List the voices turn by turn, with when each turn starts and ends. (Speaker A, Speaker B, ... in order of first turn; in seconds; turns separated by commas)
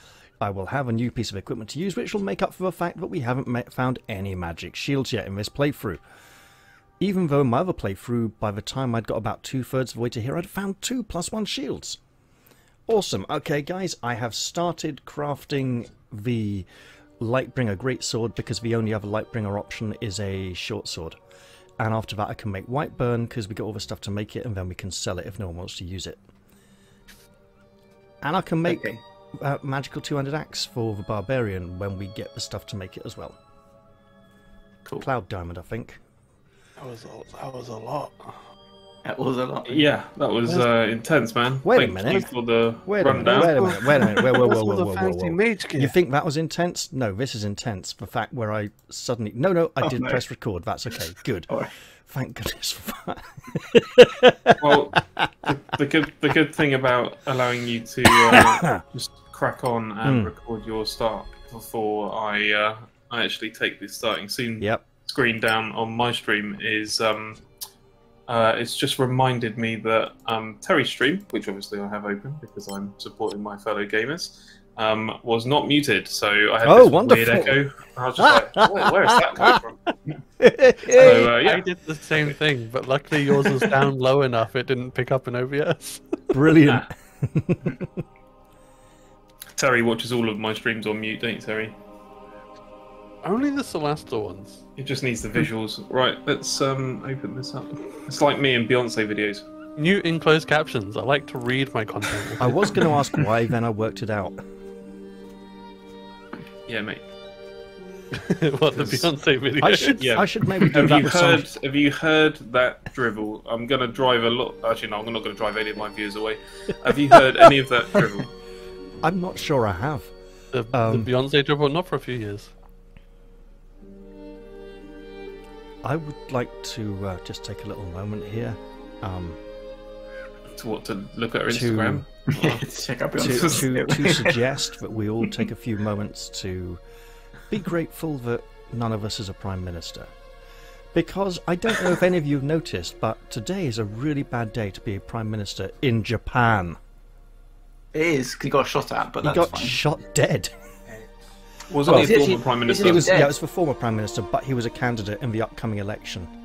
Speaker A: 0.4-6.0, Speaker A: 7.0-12.0, Speaker A: 12.9-16.7, Speaker A: 17.2-21.2, Speaker A: 21.8-26.2, Speaker A: 28.2-33.4, Speaker B: 28.7-29.0, Speaker A: 35.0-36.0, Speaker C: 36.8-38.4, Speaker B: 39.0-39.9, Speaker D: 39.6-43.5, Speaker A: 41.6-42.3, Speaker A: 42.9-51.5, Speaker C: 43.2-46.0, Speaker B: 49.8-50.2, Speaker A: 52.0-55.5, Speaker D: 54.6-67.4, Speaker A: 58.2-58.8, Speaker A: 60.0-60.3, Speaker A: 64.6-64.8, Speaker D: 68.3-79.8, Speaker A: 76.6-77.6, Speaker A: 78.2-79.6, Speaker A: 80.4-81.3, Speaker D: 80.9-81.7, Speaker C: 81.0-86.2, Speaker A: 86.3-88.0, Speaker D: 89.6-91.8, Speaker C: 93.2-94.6, Speaker D: 94.8-99.4, Speaker C: 99.8-102.8, Speaker A: 102.4-104.4, Speaker D: 106.7-107.0, Speaker C: 108.1-110.0, Speaker D: 108.8-109.1, Speaker A: 109.6-111.5, Speaker D: 110.0-118.3, Speaker A: 116.9-117.4, Speaker A: 119.0-120.1, Speaker C: 120.5-122.5, Speaker A: 120.7-121.1, Speaker A: 125.8-129.4, Speaker D: 130.5-132.7, Speaker A: 131.5-132.0, Speaker B: 132.3-134.2, Speaker A: 133.2-136.8, Speaker D: 133.2-134.4, Speaker A: 137.5-140.1, Speaker A: 140.9-146.8, Speaker B: 147.9-149.8, Speaker A: 149.2-150.5, Speaker D: 151.7-153.2, Speaker B: 151.9-153.3, Speaker A: 151.9-156.3